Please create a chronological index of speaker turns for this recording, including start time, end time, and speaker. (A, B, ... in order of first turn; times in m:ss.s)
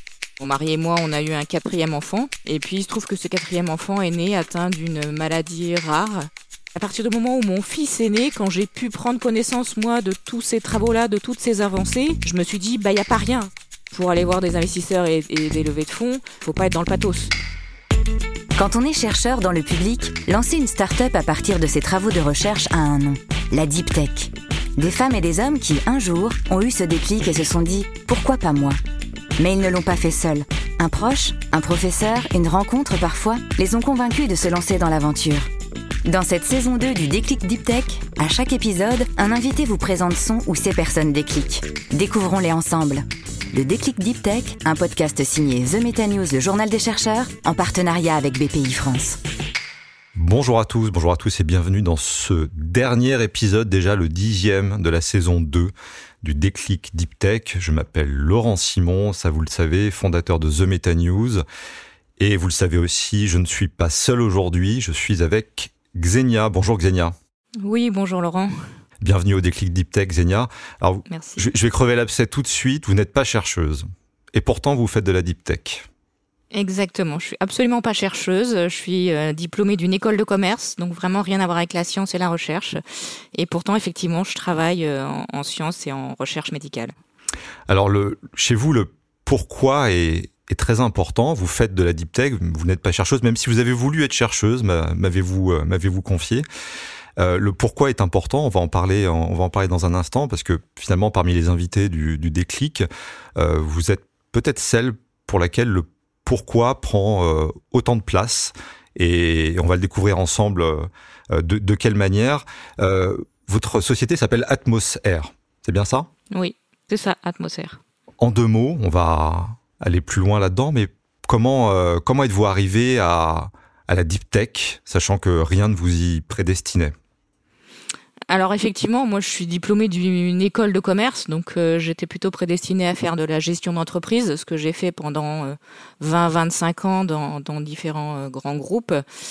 0:00.4-0:17.3 A
0:18.6-0:28.8 B
0:29.4-0:35.5 B
0:36.0-0:49.2 B
0:50.2-1:01.4 C
1:02.2-1:07.1 C
1:07.6-1:08.5 A
1:09.0-1:15.9 C
1:11.1-1:11.4 A
1:16.5-1:22.8 A
1:23.3-1:26.9 A
1:27.7-1:36.4 C
1:37.2-1:42.9 C
1:43.4-1:56.1 C
1:56.3-1:57.8 A
1:58.2-2:06.9 C
2:08.3-2:19.0 A